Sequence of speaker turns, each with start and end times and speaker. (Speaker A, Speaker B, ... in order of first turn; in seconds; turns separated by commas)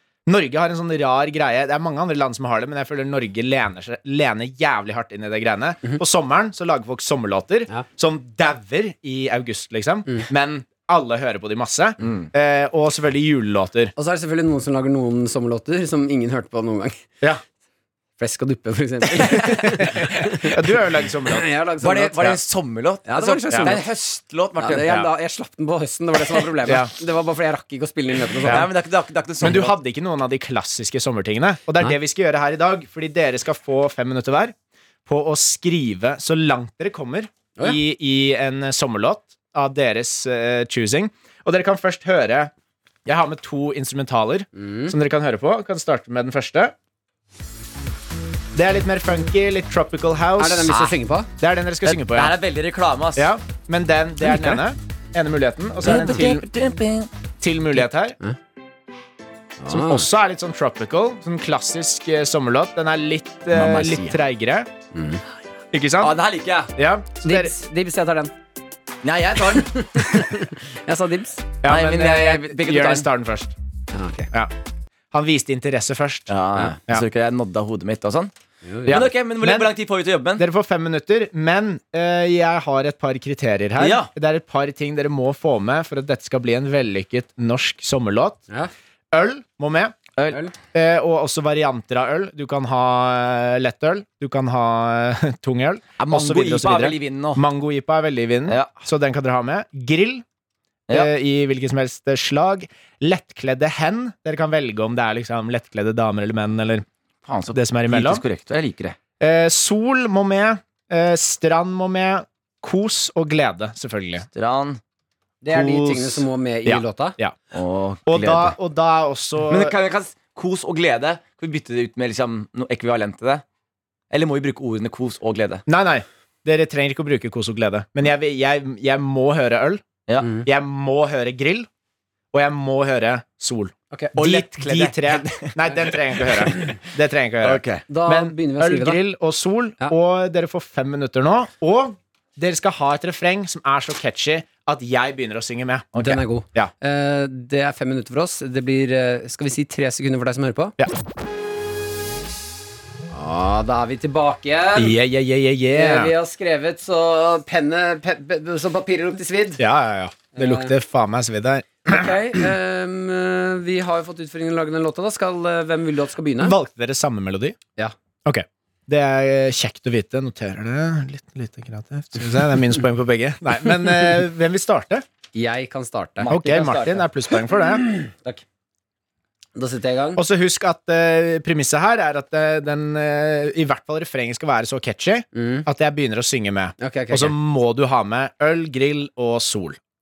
Speaker A: 0.2-13.9, Speaker B: 12.0-12.3, Speaker C: 13.9-17.1, Speaker C: 18.2-20.6, Speaker A: 19.2-21.5, Speaker C: 21.2-22.4, Speaker B: 21.8-25.1, Speaker C: 23.1-23.8, Speaker C: 24.6-28.7, Speaker A: 26.6-26.9, Speaker B: 28.4-29.7, Speaker A: 29.4-34.5, Speaker A: 35.0-42.5, Speaker A: 43.0-46.7, Speaker C: 44.5-44.9, Speaker A: 48.5-50.8, Speaker C: 50.4-51.3, Speaker A: 51.4-52.4, Speaker B: 51.8-53.3, Speaker A: 53.1-56.5, Speaker B: 55.8-57.1, Speaker A: 57.4-58.2, Speaker C: 59.6-60.0, Speaker A: 59.7-64.7, Speaker B: 63.5-64.2, Speaker C: 64.9-65.2, Speaker A: 65.7-66.1, Speaker B: 66.0-66.7, Speaker A: 66.8-67.5, Speaker C: 67.2-68.3, Speaker B: 69.0-70.1, Speaker C: 69.5-71.5, Speaker A: 71.6-73.5, Speaker B: 71.6-73.1, Speaker C: 73.9-74.3, Speaker A: 75.1-76.3, Speaker B: 76.3-78.3, Speaker C: 78.6-79.0, Speaker A: 78.8-79.7, Speaker B: 78.8-80.4, Speaker A: 80.4-88.4, Speaker B: 83.8-84.1, Speaker A: 89.1-90.0, Speaker A: 90.7-100.2, Speaker B: 96.0-97.4, Speaker A: 100.9-106.8, Speaker B: 107.3-109.0, Speaker A: 107.5-108.2, Speaker A: 109.2-114.3, Speaker B: 114.3-114.8, Speaker C: 115.4-117.2, Speaker A: 115.5-117.3, Speaker B: 117.5-118.5, Speaker A: 118.1-119.7, Speaker B: 119.5-123.4, Speaker B: 124.1-125.6, Speaker A: 125.7-129.8, Speaker A: 130.4-131.7, Speaker A: 132.3-146.7, Speaker B: 134.2-136.8, Speaker B: 137.4-137.8, Speaker C: 137.9-139.0, Speaker C: 146.0-150.8, Speaker C: 153.1-155.0, Speaker A: 154.8-156.1, Speaker C: 155.7-159.6, Speaker A: 159.6-162.4, Speaker C: 160.3-160.7, Speaker C: 161.8-166.6, Speaker A: 166.4-167.6, Speaker A: 168.2-175.0, Speaker C: 175.3-176.8, Speaker B: 176.2-177.0, Speaker A: 176.3-177.9, Speaker C: 177.7-178.4, Speaker C: 179.5-180.2, Speaker A: 180.2-189.8, Speaker C: 185.3-185.6, Speaker C: 186.8-187.3